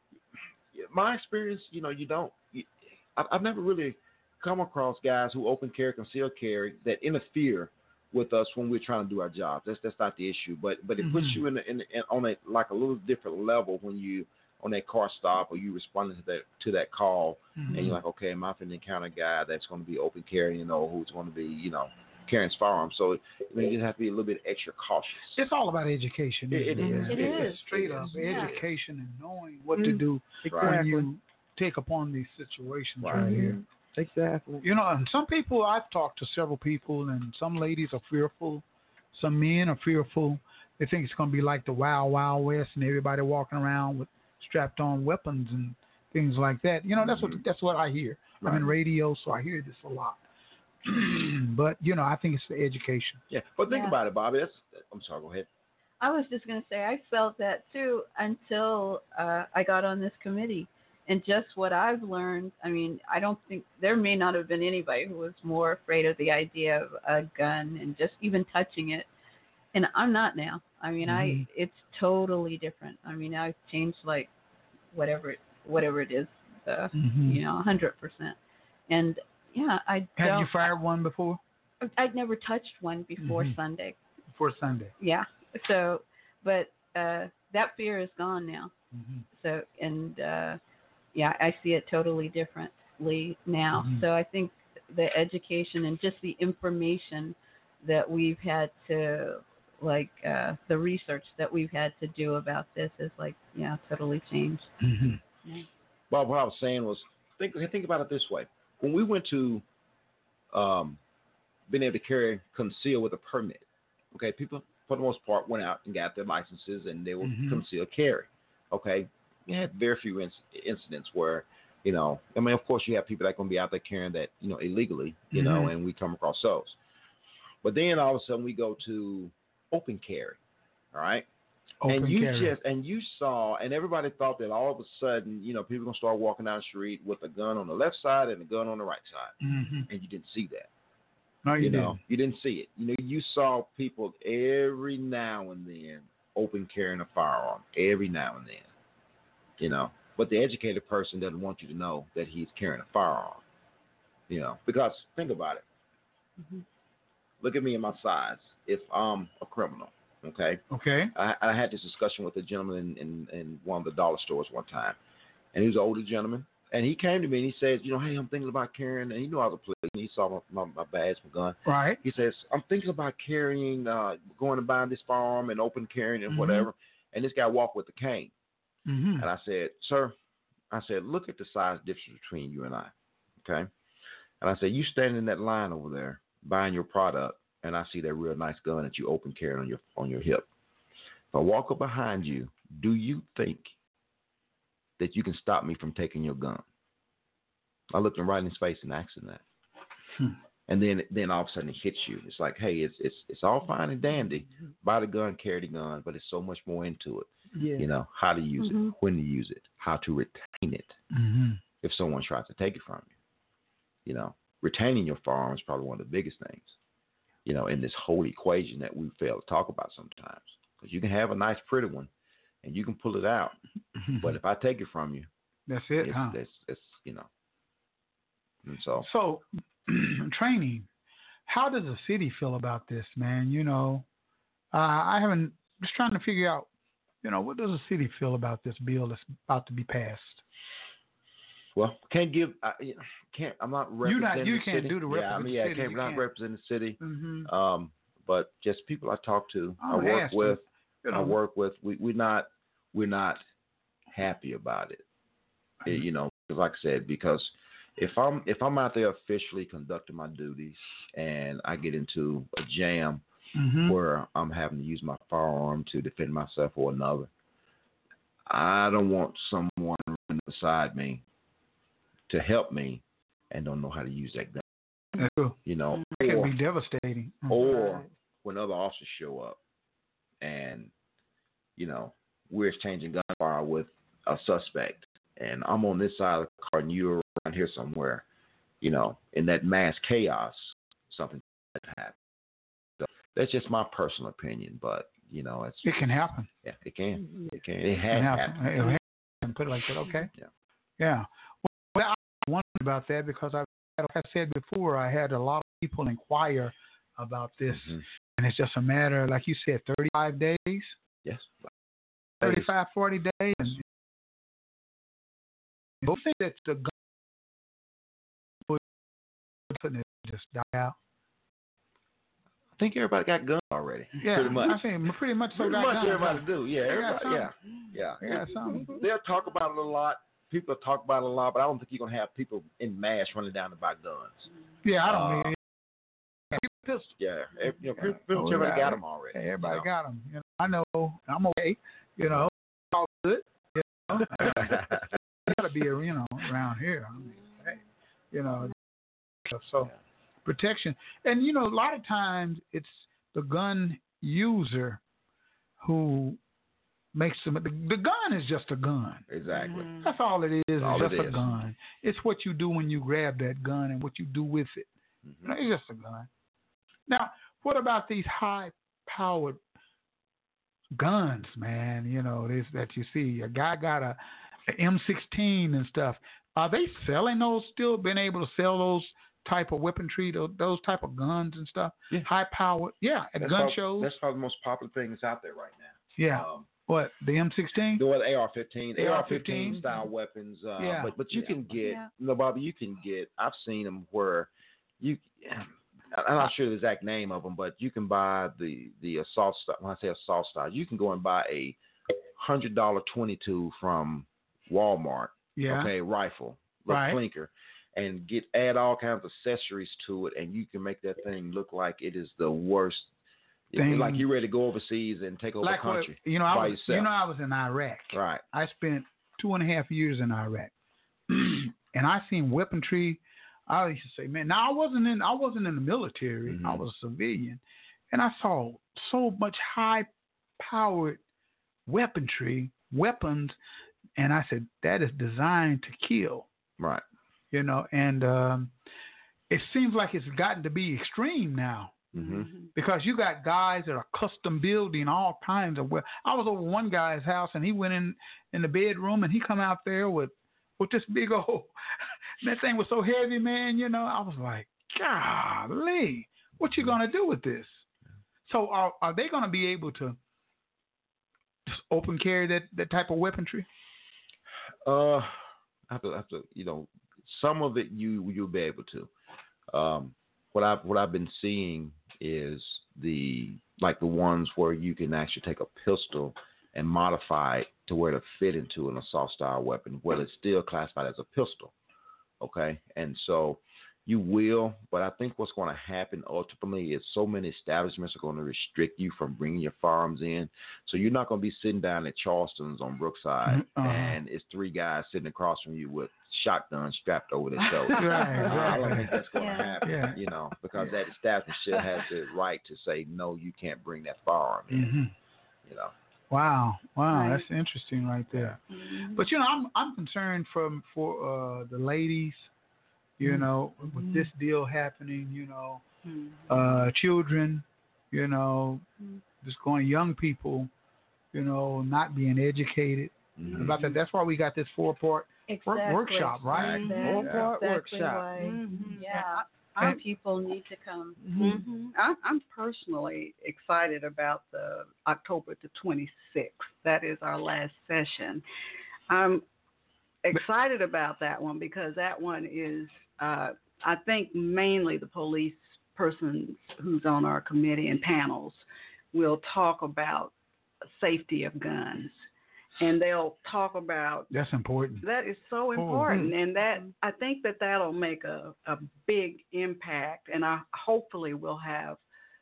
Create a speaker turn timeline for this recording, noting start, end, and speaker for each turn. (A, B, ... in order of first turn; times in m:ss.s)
0:00.7-0:25.4 A
0:11.0-0:11.4 B
0:17.6-0:18.0 B
0:25.3-0:33.6 B
0:26.5-0:28.6 A
0:26.8-0:27.4 C
0:27.1-0:27.7 D
0:28.2-0:28.5 D
0:29.7-0:31.1 C
0:30.5-0:30.9 A
0:33.0-0:33.3 A
0:33.1-0:34.6 C
0:34.6-0:50.2 B
0:47.0-0:47.4 A
0:48.4-0:48.7 A
0:50.8-0:53.2 B
0:53.3-0:55.5 A
0:53.7-0:54.0 D
0:56.0-1:09.1 D
1:09.7-1:14.3 D
1:11.0-1:11.4 B
1:14.9-1:18.4 D
1:16.9-1:17.4 B
1:18.9-1:20.6 D
1:20.2-1:21.4 B
1:21.8-1:24.0 D
1:23.2-1:23.6 B
1:24.3-1:24.9 B
1:25.0-1:28.7 D
1:28.9-1:29.2 B
1:29.3-1:30.6 D
1:31.1-1:44.7 D
1:33.7-1:34.0 B
1:44.8-1:45.2 B
1:46.1-1:49.6 A
1:50.5-1:51.0 A
1:51.7-2:06.8 A
1:57.2-1:57.6 B
2:05.3-2:05.7 B
2:07.6-2:10.4 A
2:10.9-2:11.3 A
2:11.8-2:12.5 B
2:11.8-2:19.4 A
2:19.4-2:19.9 B
2:19.9-2:20.7 A
2:21.4-2:22.0 B
2:21.6-2:28.7 A
2:29.6-2:33.4 A
2:34.3-2:35.6 A
2:37.4-2:40.6 A
2:40.7-2:41.1 B
2:41.1-2:45.0 A
2:45.5-2:58.3 A
2:51.6-2:52.0 B
2:56.3-2:56.7 B
2:58.9-2:59.3 B
2:59.2-3:00.1 A
3:00.7-3:02.9 A
3:03.4-3:03.7 A
3:04.4-3:10.5 A
3:11.3-3:13.7 A
3:15.0-3:16.6 A
3:17.9-3:19.4 A
3:20.7-3:31.0 A
3:27.5-3:27.9 C
3:28.6-3:28.9 D
3:31.1-3:31.6 B
3:31.8-3:33.1 A
3:34.0-3:36.7 A
3:37.4-3:42.1 A
3:42.6-3:43.6 A
3:44.0-3:44.4 B
3:44.2-3:45.3 A
3:45.7-3:46.4 B
3:46.0-3:47.3 A
3:48.6-3:49.1 A
3:49.0-3:50.9 B
3:51.5-3:54.0 B
3:54.7-3:56.7 B
3:57.2-4:00.4 B
4:01.8-4:13.4 A
4:04.0-4:06.2 B
4:07.0-4:07.5 B
4:09.8-4:11.4 B
4:14.1-4:15.0 A
4:15.8-4:23.2 A
4:23.5-4:24.0 B
4:23.8-4:27.3 A
4:28.5-4:31.2 A
4:32.3-4:34.6 A
4:35.2-4:37.7 B
4:35.6-4:36.6 A
4:37.5-4:39.6 A
4:37.6-4:38.0 C
4:40.4-4:40.9 A
4:41.8-4:48.2 A
4:48.8-4:52.2 A
4:53.0-4:56.0 A
4:55.8-4:56.5 B
4:56.6-4:59.0 A
4:58.1-5:00.3 B
5:01.0-5:11.0 B
5:07.7-5:08.0 A
5:11.2-5:11.7 A
5:12.4-5:12.7 A
5:12.4-5:13.8 B
5:16.0-5:16.9 B
5:19.6-5:21.0 B
5:22.8-5:24.8 A
5:24.2-5:27.5 B
5:25.5-5:34.5 A
5:28.2-5:29.0 B
5:34.8-5:35.6 B
5:35.0-5:35.5 A
5:36.5-5:37.2 B
5:37.2-5:39.8 A
5:37.9-5:47.7 B
5:44.3-5:45.0 A
5:48.3-5:48.7 B
5:49.4-5:49.9 B
5:50.4-5:55.0 B
5:55.8-5:56.4 B
5:57.1-5:59.2 B
5:59.3-6:00.0 A
5:59.8-6:04.9 B
6:00.8-6:01.6 A
6:05.2-6:05.5 A
6:05.4-6:06.3 B
6:07.1-6:09.6 B
6:10.9-6:24.1 B
6:23.4-6:26.7 A
6:26.2-6:28.0 B
6:28.0-6:41.8 A
6:29.0-6:29.8 B
6:30.8-6:31.5 B
6:31.8-6:32.1 D
6:42.4-6:53.1 A
6:45.6-6:45.9 B
6:46.9-6:47.2 B
6:53.7-6:57.1 A
6:53.7-6:54.2 B
6:55.6-7:00.7 B
6:58.1-6:58.4 A
7:01.3-7:11.2 B
7:06.5-7:06.8 A
7:11.9-7:13.6 B
7:14.2-7:16.5 B
7:17.5-7:18.7 B
7:19.5-7:22.1 B
7:22.1-7:22.5 A
7:22.7-7:37.8 B
7:38.4-7:40.2 B
7:41.7-7:43.7 B
7:44.8-7:49.1 A
7:49.7-8:01.7 A
8:02.4-8:25.0 A
8:13.4-8:14.2 B
8:17.9-8:19.2 B
8:19.4-8:19.8 D
8:19.8-8:20.2 B
8:24.7-8:25.1 B
8:25.6-8:25.9 A
8:26.3-8:32.5 B
8:27.1-8:27.4 D
8:28.8-8:29.2 D
8:33.2-8:35.8 B
8:36.5-8:38.8 B
8:39.4-8:40.7 B
8:41.3-8:47.0 B
8:43.4-8:43.8 A
8:45.5-8:51.9 D
8:46.5-8:47.5 A
8:46.8-8:48.5 C
8:46.9-8:47.2 E
8:48.4-8:49.4 E
8:51.2-8:51.6 C
8:51.4-8:58.4 E
8:59.1-8:59.4 E
9:00.2-9:10.3 E
9:10.9-9:12.2 E
9:12.8-9:14.3 E
9:14.3-9:15.0 B
9:15.0-9:22.0 E
9:15.7-9:16.2 B